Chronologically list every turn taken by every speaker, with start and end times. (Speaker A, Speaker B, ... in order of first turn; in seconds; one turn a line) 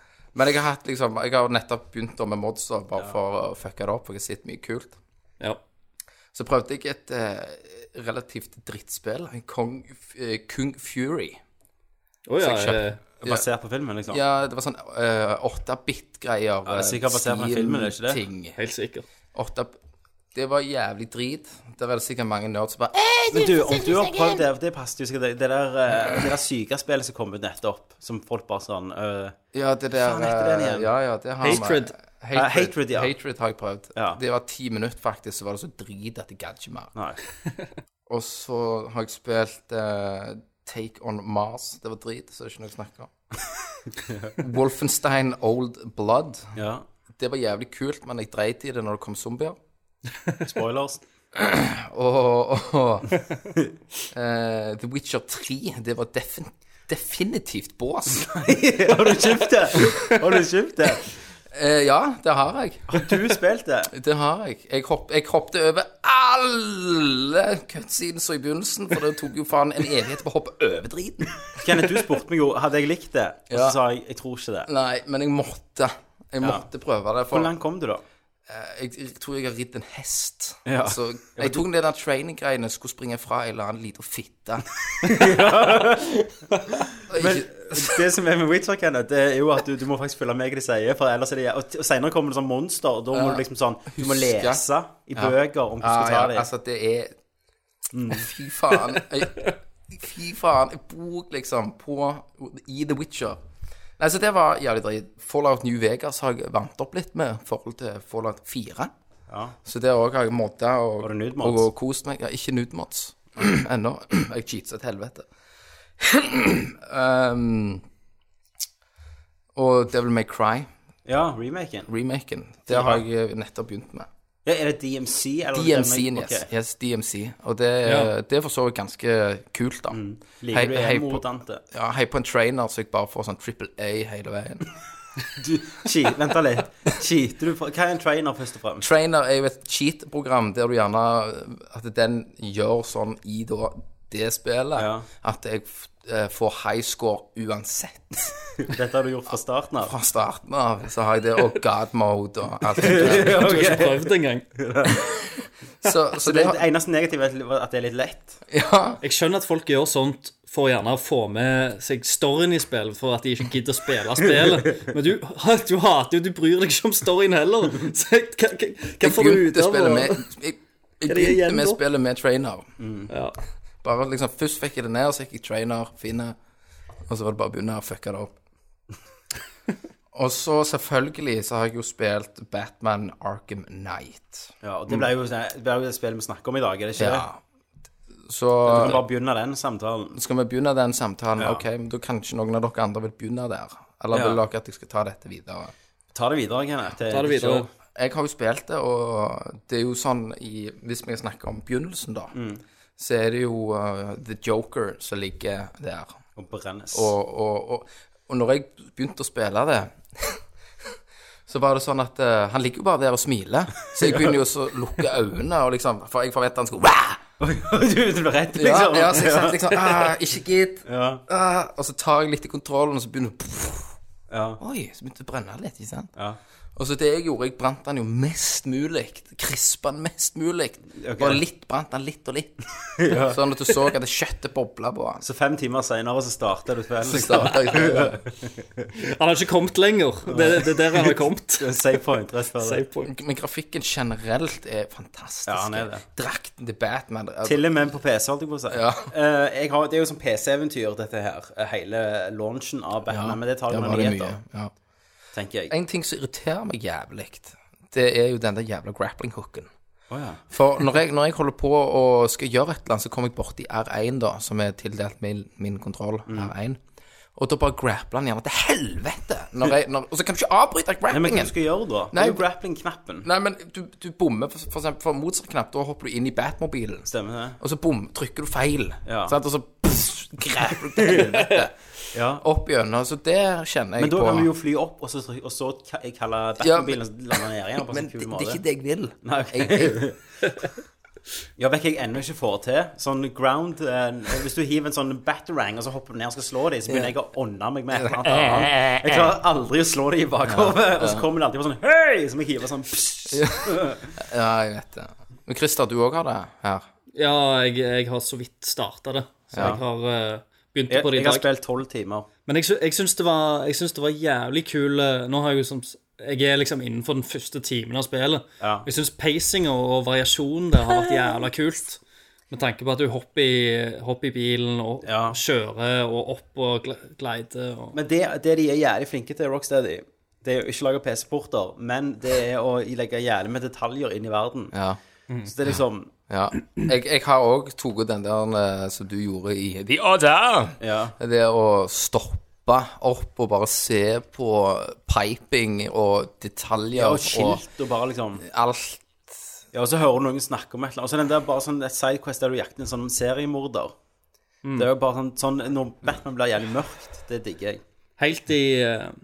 Speaker A: 0.3-5.0
Speaker A: 6.3-11.4
Speaker B: 12.3-13.0
Speaker A: 12.4-13.4
Speaker C: 13.2-14.2
Speaker A: 14.1-18.6
Speaker C: 16.7-18.2
Speaker B: 18.6-19.1
Speaker A: 19.3-19.8
Speaker A: 20.3-23.2
Speaker C: 23.3-29.4
Speaker A: 29.5-36.9
Speaker C: 30.0-30.9
Speaker B: 31.4-31.9
Speaker C: 32.3-33.1
Speaker C: 37.0-37.2
Speaker A: 38.1-43.1
Speaker C: 44.1-44.4
Speaker A: 44.4-46.5
Speaker C: 46.6-46.9
Speaker A: 47.2-49.6
Speaker C: 50.4-51.0
Speaker A: 51.4-53.1
Speaker A: 54.1-58.4
Speaker C: 58.4-61.1
Speaker A: 61.5-63.0
Speaker C: 62.9-63.9
Speaker A: 63.9-71.6
Speaker C: 71.6-74.7
Speaker A: 73.5-73.8
Speaker A: 74.7-77.5
Speaker C: 77.3-78.0
Speaker A: 78.5-84.7
Speaker C: 80.7-81.6
Speaker C: 85.0-86.3
Speaker A: 87.1-87.9
Speaker C: 87.2-96.5
Speaker A: 93.1-94.6
Speaker A: 95.2-97.1
Speaker C: 97.9-98.2
Speaker A: 98.1-103.4
Speaker A: 104.0-108.9
Speaker C: 109.3-109.6
Speaker A: 109.7-115.2
Speaker C: 111.0-111.7
Speaker A: 116.0-117.8
Speaker A: 119.5-120.7
Speaker C: 121.1-121.9
Speaker A: 121.9-124.1
Speaker C: 122.7-123.0
Speaker C: 124.5-126.5
Speaker A: 125.5-130.0
Speaker B: 127.8-128.1
Speaker C: 129.9-131.6
Speaker A: 130.5-134.7
Speaker C: 135.4-138.9
Speaker A: 138.8-148.3
Speaker C: 144.8-145.1
Speaker C: 148.6-149.9
Speaker A: 149.8-153.4
Speaker C: 152.8-155.0
Speaker B: 153.0-154.5
Speaker A: 155.8-156.6
Speaker C: 156.2-158.4
Speaker A: 158.5-159.0
Speaker B: 159.0-170.2
Speaker A: 169.0-172.7
Speaker B: 171.1-171.8
Speaker C: 172.8-173.1
Speaker B: 173.1-173.4
Speaker A: 173.8-176.3
Speaker A: 177.1-178.3
Speaker A: 180.1-185.1
Speaker C: 184.6-187.2
Speaker A: 187.0-187.4
Speaker A: 188.3-189.0
Speaker C: 188.7-190.2
Speaker A: 190.2-195.7
Speaker C: 191.4-191.6
Speaker C: 194.1-194.4
Speaker C: 196.1-197.7
Speaker B: 197.1-197.7
Speaker A: 198.0-202.3
Speaker C: 202.3-202.6
Speaker A: 203.0-206.2
Speaker C: 206.4-207.1
Speaker A: 206.9-210.4
Speaker A: 211.5-217.2
Speaker C: 214.0-214.3
Speaker C: 217.4-220.1
Speaker A: 218.6-223.9
Speaker C: 220.9-221.2
Speaker C: 224.3-224.6
Speaker A: 224.6-226.1
Speaker A: 226.8-235.2
Speaker C: 231.0-231.4
Speaker C: 233.0-233.4
Speaker C: 235.2-238.9
Speaker A: 237.1-238.2
Speaker B: 239.0-241.8
Speaker C: 240.3-242.8
Speaker B: 242.6-243.1
Speaker A: 243.0-247.6
Speaker C: 245.5-246.1
Speaker C: 247.4-254.4
Speaker A: 248.7-249.1
Speaker A: 253.1-254.7
Speaker C: 255.3-255.7
Speaker A: 255.7-259.7
Speaker C: 260.1-260.4
Speaker A: 260.5-266.8
Speaker A: 267.4-271.5
Speaker C: 271.1-273.3
Speaker A: 272.1-272.4
Speaker A: 273.2-277.1
Speaker C: 277.1-277.6
Speaker A: 277.6-281.7
Speaker C: 279.1-279.4
Speaker C: 282.1-282.4
Speaker A: 282.4-284.5
Speaker C: 284.0-288.6
Speaker A: 286.6-290.0
Speaker C: 289.2-290.2
Speaker C: 291.6-304.1
Speaker A: 296.9-297.1
Speaker A: 298.0-299.3
Speaker A: 300.5-301.2
Speaker A: 303.3-306.9
Speaker B: 307.2-311.5
Speaker A: 309.5-309.8
Speaker C: 310.9-312.3
Speaker B: 312.5-322.0
Speaker C: 318.6-318.9
Speaker B: 322.5-328.0
Speaker C: 325.1-325.4
Speaker C: 327.9-334.7
Speaker A: 334.7-335.0
Speaker C: 335.4-336.1
Speaker A: 336.3-347.6
Speaker C: 340.8-341.2
Speaker C: 346.9-348.4
Speaker A: 348.4-349.0
Speaker C: 349.7-353.9
Speaker B: 354.6-354.9
Speaker C: 354.8-357.8
Speaker B: 358.2-359.1